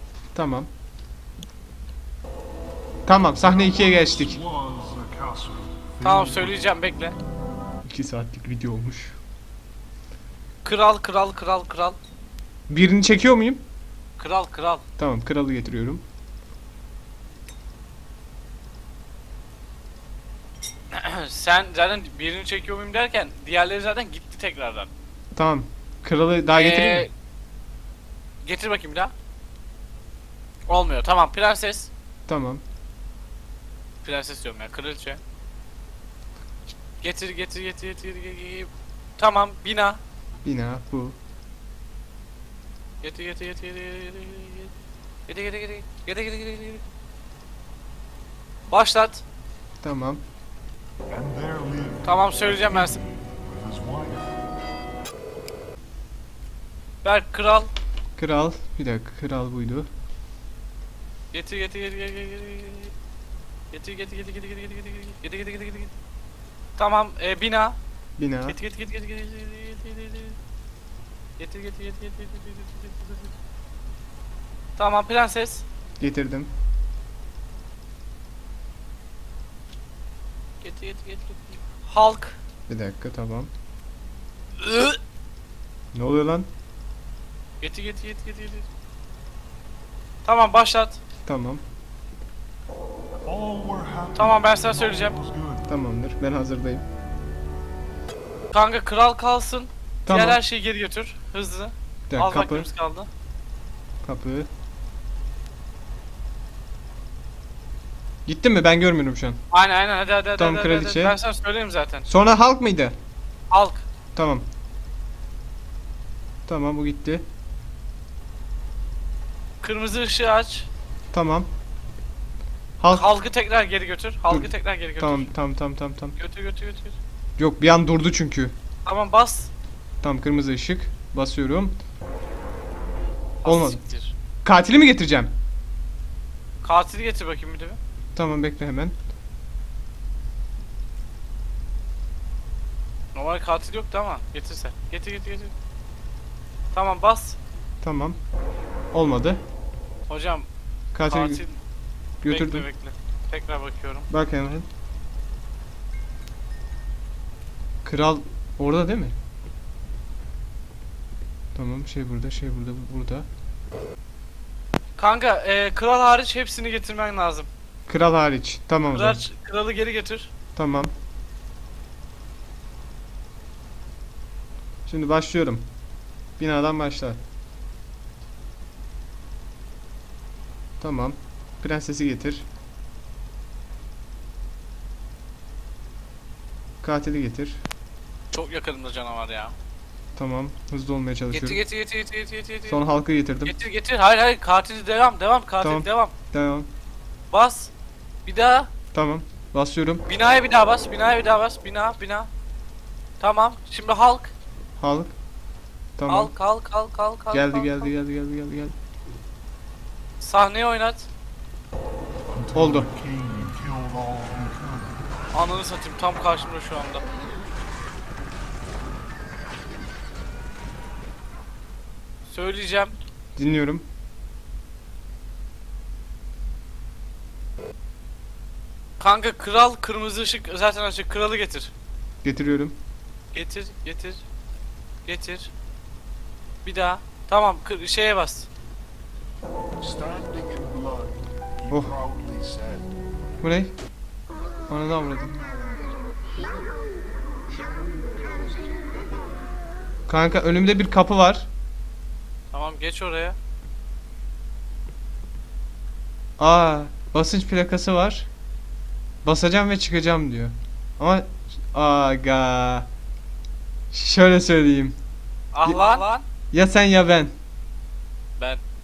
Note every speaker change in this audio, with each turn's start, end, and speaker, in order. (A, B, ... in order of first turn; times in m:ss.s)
0:00.3-0:00.7 A
0:03.0-0:04.4 A
0:03.9-0:06.4 B
0:06.0-0:07.2 C
0:07.8-0:09.2 A
0:10.6-0:12.0 C
0:12.7-0:13.6 A
0:14.2-0:14.8 C
0:15.0-0:16.0 A
0:20.9-0:24.9 C
0:25.3-0:27.0 A
0:26.5-0:27.1 C
0:28.4-0:29.1 C
0:30.7-0:31.9 C
0:32.3-0:32.6 A
0:34.0-0:35.2 C
0:37.0-0:40.0 C
0:40.4-0:41.2 A
0:43.0-0:44.7 C
0:45.3-0:46.8 C
0:48.7-0:49.2 C
0:49.8-0:50.2 A
0:51.1-0:52.0 B
0:52.0-0:53.0 C
0:53.5-0:54.3 B
0:57.0-0:57.7 C
0:58.2-0:59.9 A
1:01.3-1:02.9 C
1:03.7-1:05.9 C
1:06.8-1:07.8 C
1:08.2-1:08.6 A
1:08.4-1:10.4 C
1:11.4-1:13.3 C
1:14.8-1:15.6 C
1:16.0-1:16.5 A
1:20.6-1:22.4 C
1:22.7-1:23.5 A
1:24.6-1:25.0 C
1:25.9-1:26.5 A
1:27.6-1:28.7 C
1:30.2-1:31.0 C
1:31.2-1:31.6 A
1:33.2-1:34.4 B
1:34.2-1:35.2 C
1:35.0-1:35.6 B
1:35.6-1:36.8 A
1:38.5-1:43.1 C
1:40.1-1:40.4 A
1:42.1-1:42.7 A
1:44.0-1:44.5 A
1:48.2-1:49.4 A
1:49.5-1:52.1 C
1:50.4-1:51.1 A
1:52.1-1:52.9 A
1:53.5-1:53.8 C
1:54.1-1:54.4 A
1:56.5-1:57.2 A
1:59.6-2:00.7 C
2:01.1-2:01.5 A
2:02.8-2:03.0 A
2:02.9-2:05.3 C
2:04.3-2:06.2 A
2:06.2-2:07.0 C
2:07.4-2:08.5 A
2:08.8-2:09.5 C
2:10.0-2:11.7 A
2:13.4-2:14.1 C
2:13.4-2:13.8 A
2:14.4-2:15.3 A
2:16.6-2:17.8 C
2:18.1-2:18.9 A
2:23.1-2:25.5 C
2:26.7-2:27.4 C
2:27.8-2:28.2 A
2:28.9-2:29.4 A
2:30.1-2:30.5 C
2:30.9-2:31.4 A
2:31.1-2:31.6 C
2:32.2-2:32.6 A
2:32.2-2:34.1 C
2:34.1-2:34.6 A
2:37.8-2:39.1 A
2:41.5-2:43.2 A
2:45.0-2:47.5 C
2:47.9-2:49.2 A
2:48.9-2:50.3 C
2:50.6-2:50.9 A
2:54.9-2:55.6 A
2:56.4-2:57.2 A
3:00.8-3:02.4 A
3:06.8-3:07.6 A
3:08.3-3:09.5 C
3:10.2-3:11.6 A
3:11.3-3:12.8 C
3:12.7-3:13.5 A
3:13.4-3:16.1 C
3:15.6-3:16.7 A
3:17.3-3:17.7 C
3:18.2-3:18.7 C
3:18.9-3:20.0 A
3:20.1-3:22.3 C
3:23.2-3:24.3 C
3:24.8-3:25.1 A
3:26.0-3:26.3 A
3:26.1-3:27.9 C
3:27.3-3:28.7 A
3:30.2-3:31.1 C
3:32.3-3:35.0 B
3:32.5-3:32.9 A
3:35.3-3:37.0 C
3:42.3-3:43.0 C
3:43.4-3:43.8 A
3:49.0-3:51.7 C
3:52.2-3:52.7 A
3:53.3-3:54.2 C
3:55.0-3:55.5 C
3:56.6-3:58.5 C
3:59.8-4:02.8 B
4:01.7-4:02.0 A
4:03.4-4:03.7 A
4:04.7-4:05.3 A
4:10.1-4:11.5 A
4:12.5-4:13.4 C
4:16.4-4:18.3 A
4:19.2-4:22.9 A
4:23.9-4:24.9 A
4:25.5-4:26.2 C
4:25.6-4:26.0 A
4:26.5-4:27.3 A